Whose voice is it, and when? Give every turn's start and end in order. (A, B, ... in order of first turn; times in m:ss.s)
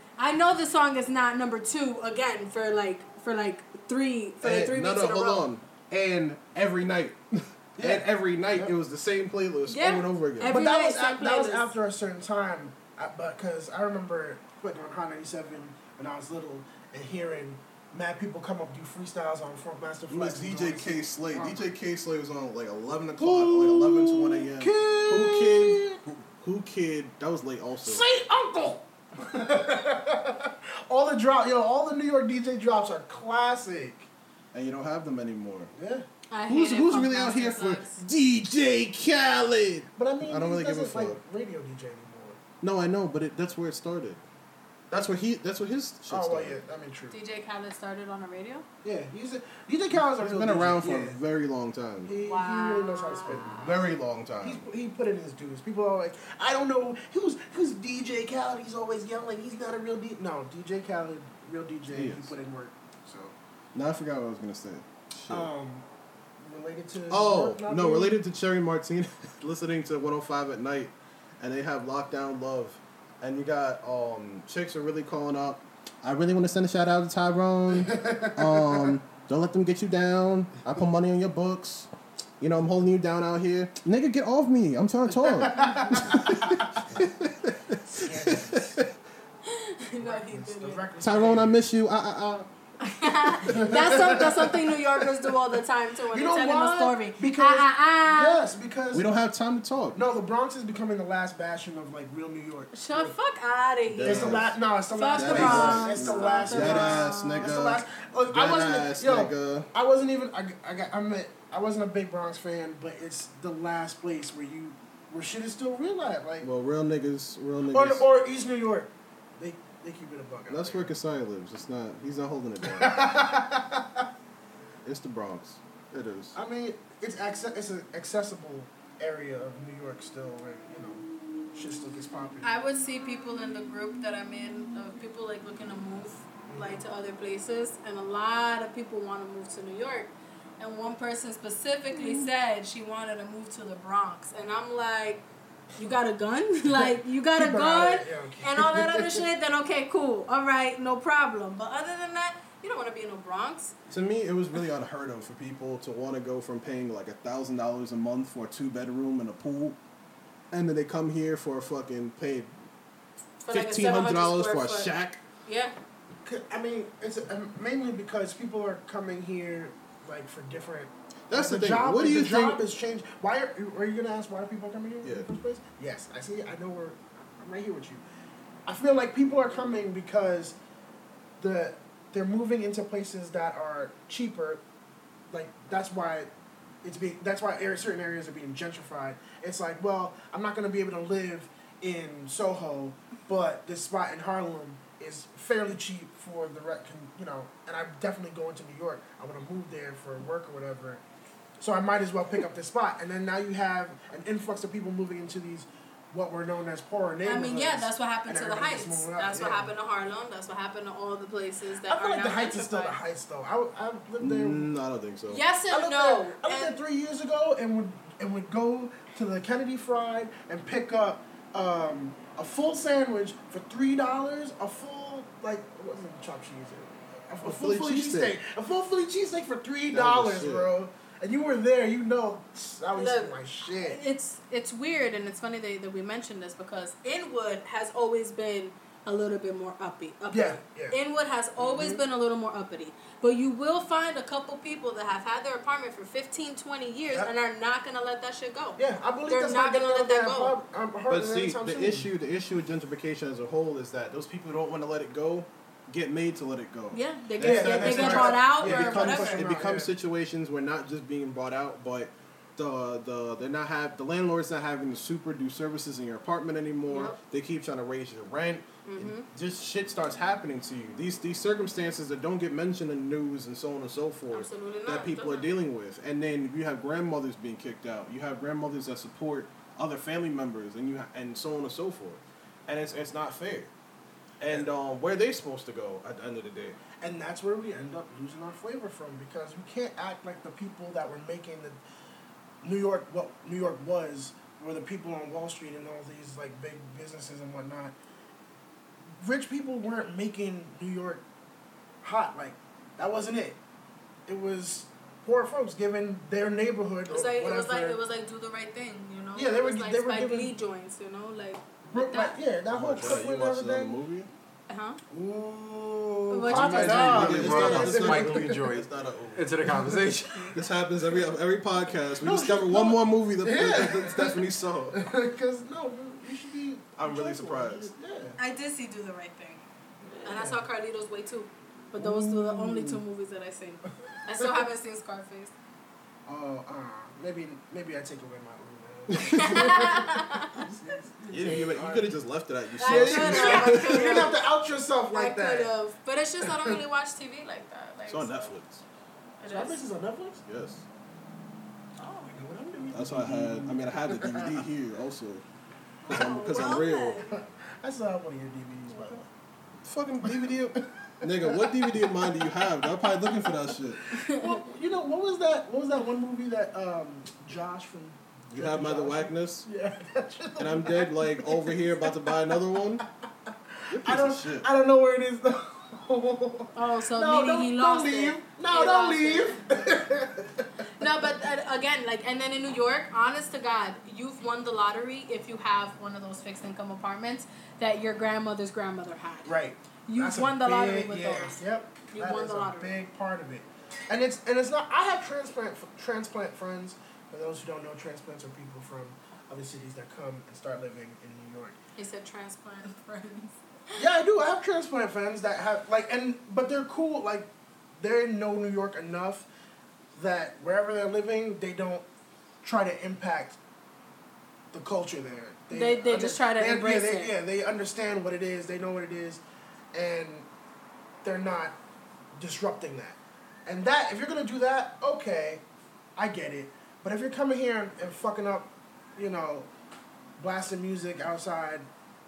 0:00.2-0:05.4 A
0:04.4-0:10.6 B
0:07.8-0:08.7 C
0:09.7-0:11.7 A
0:10.4-0:21.6 C
0:20.1-0:25.8 B
0:23.2-0:26.0 C
0:26.4-0:28.0 B
0:27.8-0:34.1 C
0:34.5-0:35.7 B
0:35.7-0:36.1 C
0:36.3-0:38.0 A
0:36.5-0:41.2 B
0:40.0-0:42.4 C
0:42.6-0:44.2 B
0:44.9-0:46.6 B
0:46.1-0:47.2 C
0:47.1-0:48.6 A
0:48.8-0:51.2 C
0:49.9-0:52.1 B
0:52.0-0:53.9 C
0:52.2-0:53.8 A
0:53.2-0:54.6 B
0:54.4-1:03.3 C
1:01.9-1:02.3 B
1:03.7-1:05.5 B
1:05.3-1:05.8 C
1:06.4-1:08.2 C
1:07.1-1:28.9 B
1:17.8-1:18.9 C
1:25.4-1:26.6 C
1:27.9-1:28.8 C
1:29.4-1:30.8 A
1:30.0-1:31.5 C
1:31.0-1:32.5 B
1:32.8-1:38.4 A
1:33.4-1:35.3 C
1:36.1-1:39.0 C
1:38.9-1:40.0 B
1:39.9-1:43.2 C
1:42.7-1:47.6 A
1:43.9-1:49.7 B
1:44.0-1:56.5 C
1:56.4-1:58.0 B
1:57.7-2:00.9 C
2:00.5-2:03.0 B
2:02.6-2:04.0 C
2:04.8-2:06.4 B
2:06.3-2:12.5 C
2:12.4-2:25.2 A
2:16.5-2:16.8 C
2:25.8-2:33.7 A
2:26.7-2:29.2 C
2:33.9-2:39.8 B
2:40.5-2:42.5 B
2:43.4-2:44.9 A
2:43.5-2:45.2 B
2:45.4-2:45.7 A
2:46.2-2:58.0 C
2:51.3-2:52.6 B
2:55.0-2:55.3 B
2:58.6-3:00.6 C
3:01.4-3:04.6 C
3:05.3-3:06.3 C
3:06.8-3:21.0 C
3:21.6-3:29.7 C
3:27.2-3:33.0 A
3:31.8-3:34.6 C
3:34.2-3:35.4 B
3:35.3-3:36.8 A
3:35.7-3:54.0 C
3:47.4-3:48.4 B
3:49.9-3:50.7 B
3:52.9-4:10.5 A
4:00.3-4:01.0 C
4:01.6-4:02.0 C
4:08.8-4:12.0 C
4:11.1-4:43.7 B
4:16.9-4:19.4 A
4:17.4-4:19.9 C
4:26.9-4:27.2 A
4:28.8-4:29.3 A
4:34.3-4:35.5 A
4:44.4-4:46.8 B
4:47.0-4:51.8 C
4:52.6-4:57.9 C
4:59.2-5:01.2 C
5:02.0-5:03.6 C
5:04.2-5:08.0 C
5:07.1-5:12.4 A
5:09.3-5:10.5 C
5:11.9-5:14.0 C
5:12.7-5:14.3 B
5:14.7-5:15.0 A
5:15.1-5:18.6 C
5:16.3-5:17.9 A
5:16.5-5:20.6 D
5:16.6-5:19.4 B
5:20.5-5:25.0 B
5:22.2-5:24.4 C
5:24.9-5:28.4 C
5:27.0-5:27.9 B
5:28.4-5:29.6 A
5:30.0-5:30.6 C
5:30.2-5:35.5 A
5:32.0-5:33.0 C
5:36.2-5:42.1 C
5:39.1-5:39.6 B
5:39.3-5:40.6 A
5:41.3-5:44.3 B
5:42.8-5:44.4 A
5:42.8-5:45.7 C
5:45.1-5:48.5 A
5:48.1-5:48.8 B
5:49.4-5:49.8 A
5:49.5-5:50.4 C
5:50.4-5:50.8 B
5:52.0-5:54.6 C
5:52.9-5:55.4 B
5:56.0-5:59.3 C
5:56.1-5:57.2 B
5:56.1-5:57.3 A
5:58.9-5:59.2 A
5:59.8-6:04.0 B
6:00.2-6:03.6 C
6:04.1-6:11.9 C
6:04.1-6:04.6 A
6:08.5-6:09.7 B
6:10.6-6:13.0 B
6:13.8-6:20.7 C
6:13.9-6:14.6 B
6:16.7-6:19.5 A
6:21.0-6:29.5 A
6:29.4-6:41.8 C
6:30.0-6:32.9 A
6:42.0-6:44.0 A
6:44.0-6:49.5 C
6:50.1-6:52.0 C
6:52.6-6:53.6 C
6:54.7-6:59.4 C
6:55.7-6:57.3 A
6:59.9-7:00.5 C
7:01.2-7:01.8 C
7:02.4-7:05.6 C
7:06.2-7:09.7 C
7:10.4-7:11.9 C